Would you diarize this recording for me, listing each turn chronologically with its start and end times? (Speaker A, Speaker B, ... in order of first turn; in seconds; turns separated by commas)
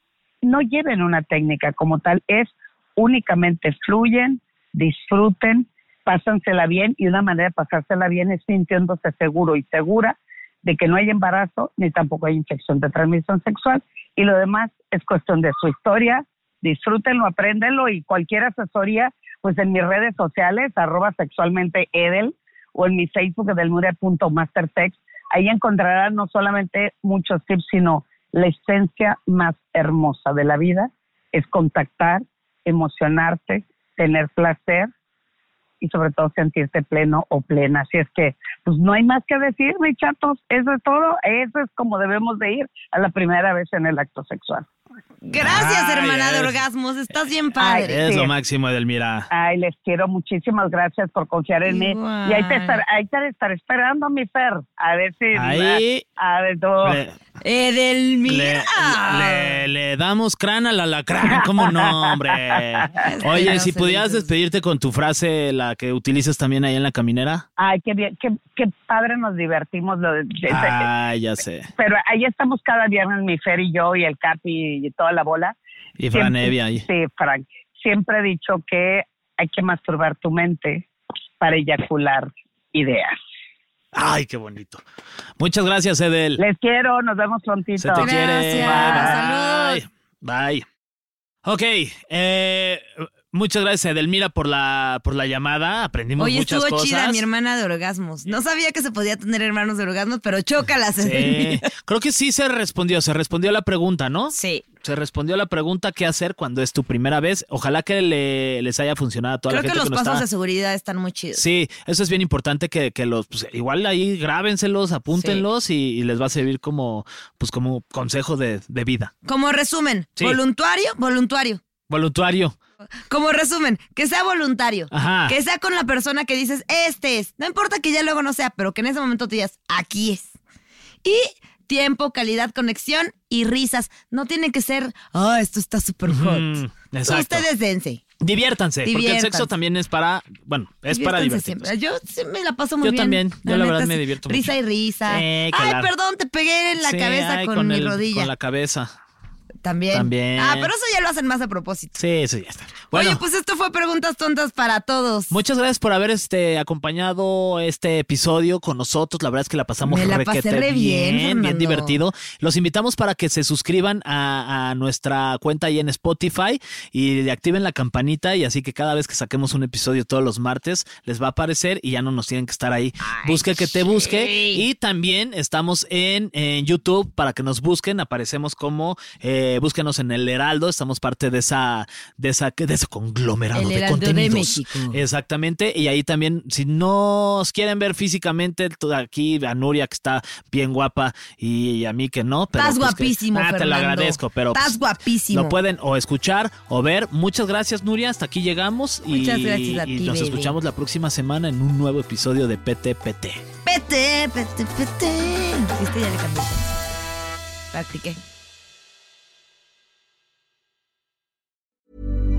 Speaker A: 0.4-34.9, Speaker A: 35.8-44.6, Speaker B: 45.2-48.0, Speaker C: 45.4-46.6, Speaker A: 47.6-48.3, Speaker C: 47.8-49.3, Speaker A: 49.3-57.0, Speaker B: 51.6-52.8, Speaker C: 55.3-56.0, Speaker C: 56.8-57.1, Speaker B: 57.4-59.6, Speaker C: 58.2-67.5, Speaker A: 61.4-62.2, Speaker B: 63.0-64.3, Speaker A: 67.6-70.8, Speaker C: 70.5-71.7, Speaker A: 71.8-75.5, Speaker C: 76.0-76.8, Speaker A: 76.1-80.8, Speaker A: 81.4-83.2, Speaker C: 83.9-84.8, Speaker C: 85.4-86.4, Speaker A: 86.4-89.2, Speaker C: 87.8-90.7, Speaker B: 88.0-89.8, Speaker C: 91.4-97.2, Speaker B: 96.2-101.7, Speaker C: 101.0-110.2, Speaker B: 104.3-104.6, Speaker B: 109.5-111.4, Speaker C: 111.3-119.1, Speaker B: 115.1-115.4, Speaker B: 119.2-121.6, Speaker C: 121.9-122.5, Speaker B: 123.1-130.3, Speaker C: 124.9-125.3, Speaker B: 131.0-138.0, Speaker C: 136.1-137.5, Speaker C: 138.2-141.7, Speaker B: 138.8-139.5, Speaker B: 140.9-148.3, Speaker C: 142.8-144.5, Speaker C: 145.1-145.9, Speaker C: 146.8-148.9, Speaker B: 149.6-151.9, Speaker C: 149.9-150.7, Speaker C: 151.9-153.2, Speaker B: 152.9-155.4, Speaker C: 155.3-203.4, Speaker B: 159.8-162.0, Speaker B: 173.0-174.7, Speaker B: 183.5-185.0, Speaker B: 192.6-195.6, Speaker B: 199.1-200.6, Speaker B: 203.6-206.6, Speaker B: 207.7-208.2